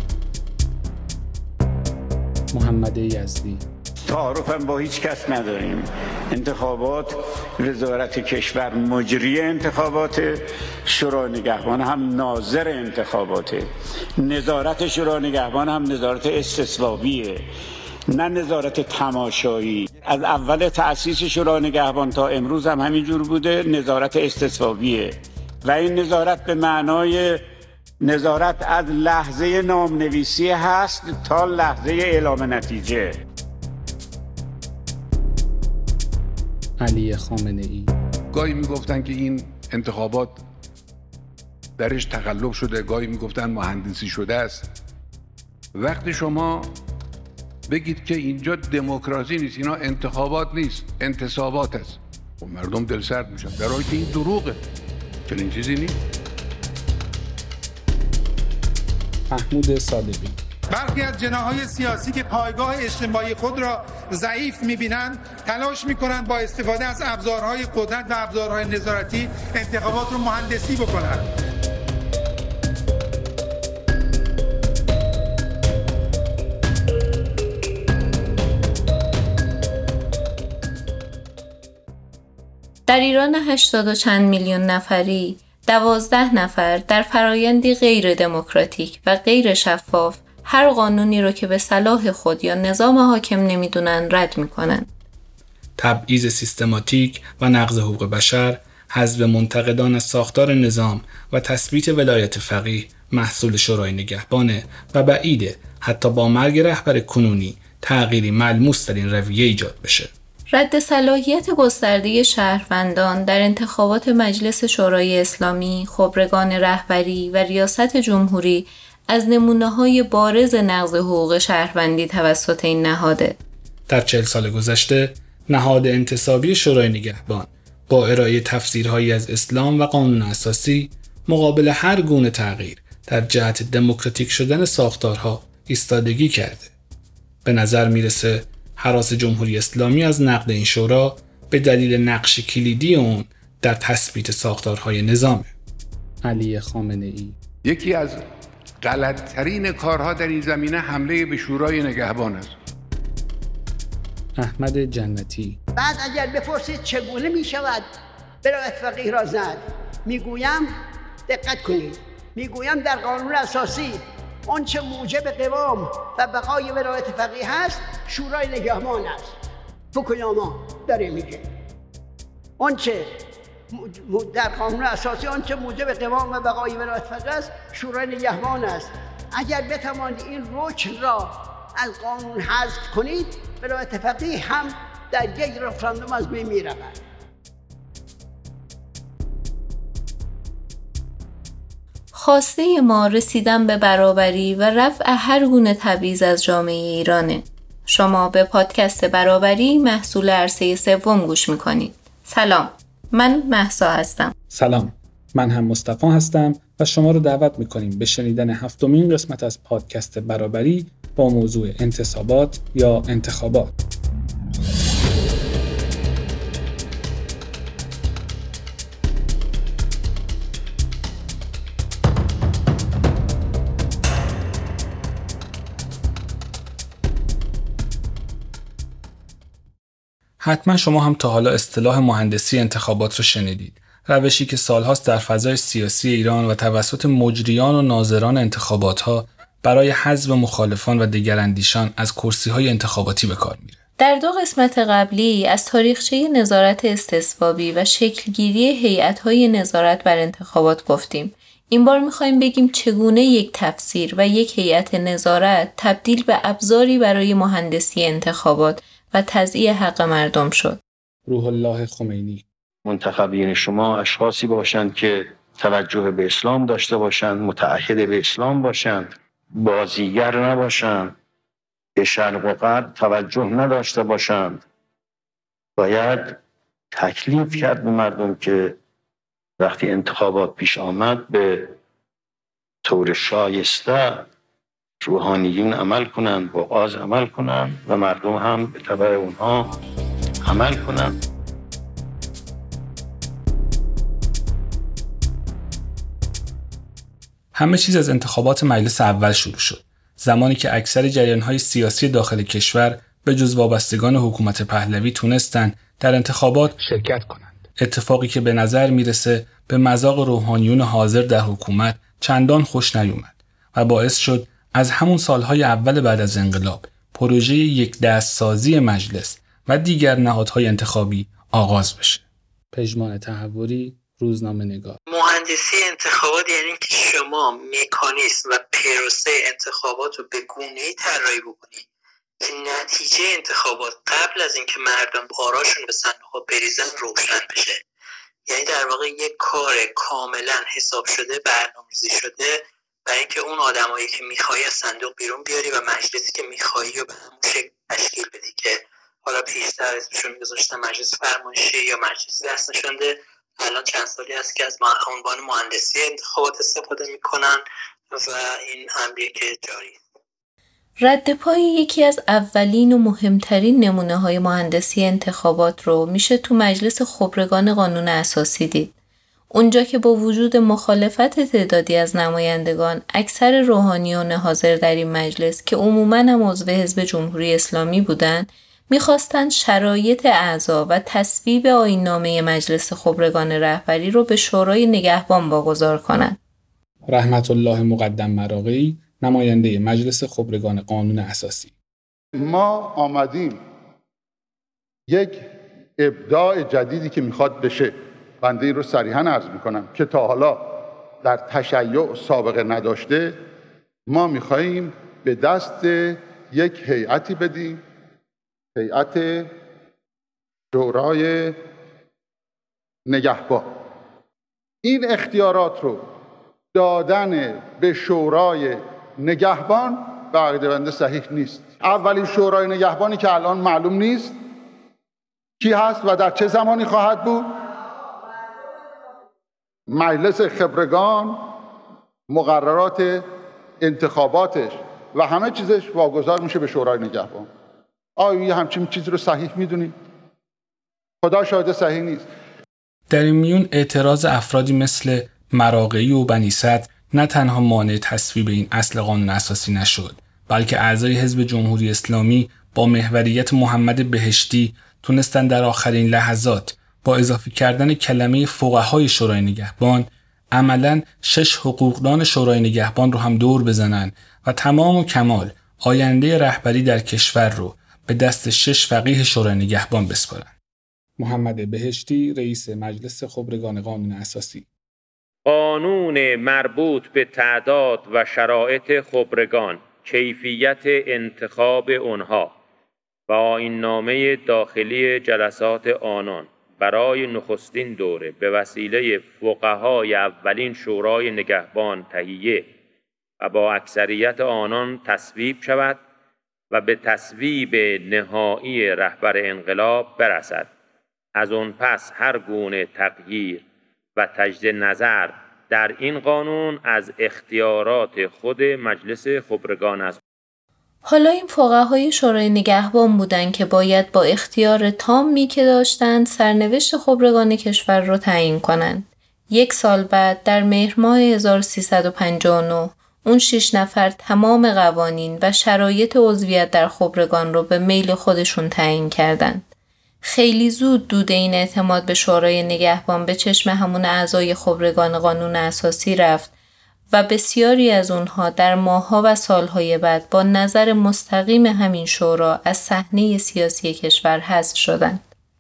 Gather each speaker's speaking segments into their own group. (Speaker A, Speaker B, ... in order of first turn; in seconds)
Speaker A: 2.5-3.6, 36.8-37.9, 59.3-60.4, 95.8-110.1, 123.9-136.7, 137.4-145.5, 146.2-147.4, 154.4-155.6, 204.5-213.7, 230.4-243.8, 261.3-262.4, 297.6-325.0, 387.1-391.7, 443.1-470.5, 471.2-474.7
Speaker B: 4.1-17.5, 18.1-27.4, 28.0-33.2
Speaker C: 38.3-40.4, 41.8-44.7, 45.8-46.7, 47.7-54.6, 55.3-56.0, 147.7-148.2, 148.8-152.5
Speaker D: 60.7-71.3
Speaker E: 82.9-94.9, 110.5-123.4, 192.1-204.3, 244.0-260.8, 361.0-368.9, 369.5-386.4, 511.1-529.7, 530.2-536.5, 537.1-545.2
Speaker F: 155.8-157.9, 158.4-160.7, 161.3-169.4, 169.9-171.4, 172.6-173.1, 173.7-187.0
Speaker G: 262.9-271.1, 272.0-274.6, 275.8-276.4, 276.9-278.8, 279.6-281.8, 282.8-284.3, 285.0-289.7, 290.4-291.2
Speaker H: 325.1-331.9, 332.4-337.8, 338.5-360.0
Speaker I: 392.4-393.6, 395.1-395.4, 396.0-403.4, 404.1-407.8, 408.8-409.5, 410.7-411.6, 413.1-413.7, 414.8-416.0, 416.7-424.4, 425.6-427.5, 429.9-431.5, 432.3-433.3, 433.8-437.5, 438.2-439.9, 441.2-442.3
Speaker J: 475.5-482.6, 483.3-492.7, 493.4-496.0, 496.7-500.7, 501.4-503.6, 504.2-510.2